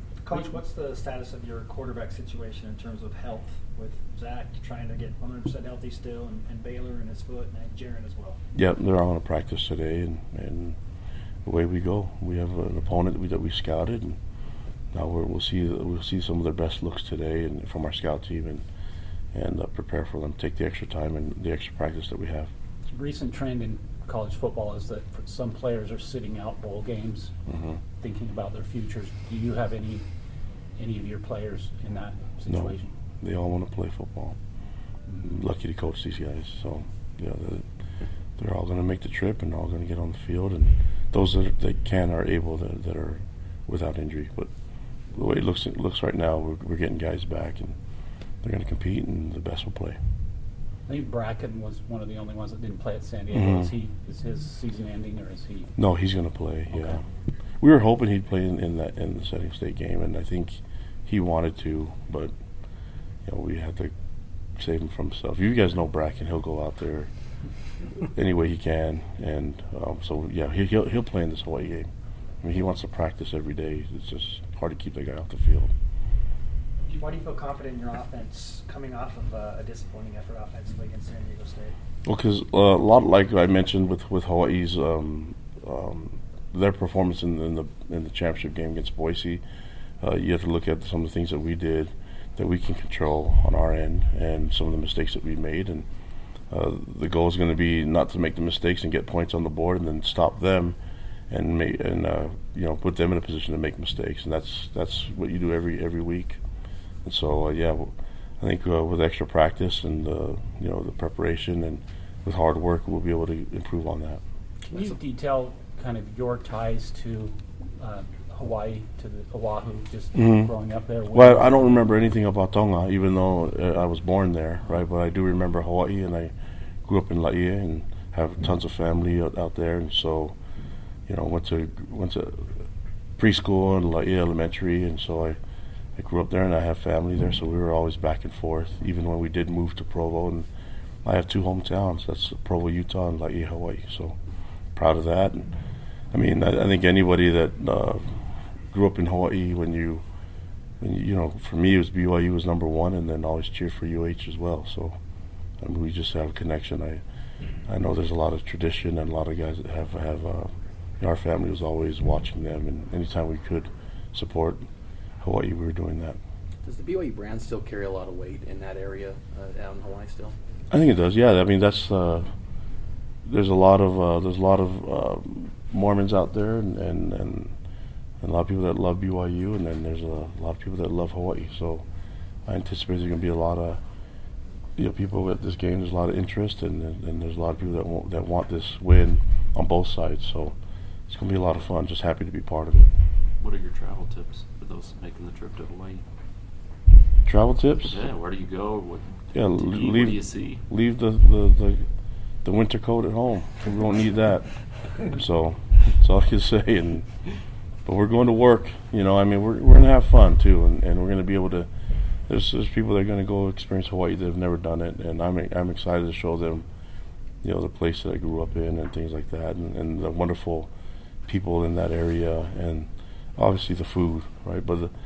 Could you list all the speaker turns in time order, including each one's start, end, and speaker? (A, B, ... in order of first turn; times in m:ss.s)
0:00.2-0:08.4 A
0:08.5-0:10.8 B
0:11.4-0:14.2 B
0:14.9-0:18.6 B
0:19.3-0:22.5 B
0:22.9-0:27.3 C
0:27.5-0:27.8 B
0:28.0-0:30.0 C
0:30.8-0:32.9 C
0:32.5-0:34.4 B
0:35.2-0:37.6 B
0:38.4-0:44.5 B
0:45.1-0:47.8 B
0:48.4-0:50.0 B
0:50.9-0:55.7 C
0:53.3-0:53.7 B
0:55.8-0:57.0 B
0:57.6-1:02.3 B
1:03.2-1:03.9 B
1:04.6-1:07.1 B
1:08.0-1:11.9 B
1:12.4-1:15.7 B
1:16.9-1:21.7 A
1:22.0-1:29.4 B
1:30.0-1:35.8 B
1:36.5-1:40.8 B
1:41.3-1:46.4 B
1:47.0-1:54.2 B
1:54.6-2:01.9 C
1:54.7-1:55.0 D
2:00.1-2:00.5 B
2:01.1-2:06.3 B
2:06.8-2:10.4 B
2:11.1-2:12.5 B
2:13.2-2:15.4 B
2:16.0-2:20.5 B
2:21.0-2:24.2 B
2:24.7-2:25.5 B
2:26.1-2:30.0 B
2:30.8-2:35.0 B
2:35.6-2:37.0 B
2:37.7-2:44.6 B
2:45.2-2:46.2 B
2:46.6-2:50.4 D
2:50.7-2:52.3 B
2:53.2-2:57.5 B
2:58.2-3:01.8 B
3:02.5-3:03.8 B
3:04.8-3:10.5 B
3:11.1-3:12.9 B
3:13.4-3:16.0 E
3:17.2-3:18.0 B
3:17.9-3:20.6 E
3:19.3-3:21.8 B
3:22.4-3:27.1 B
3:27.8-3:31.7 B
3:32.3-3:36.6 B
3:37.4-3:40.7 B
3:41.3-3:44.9 B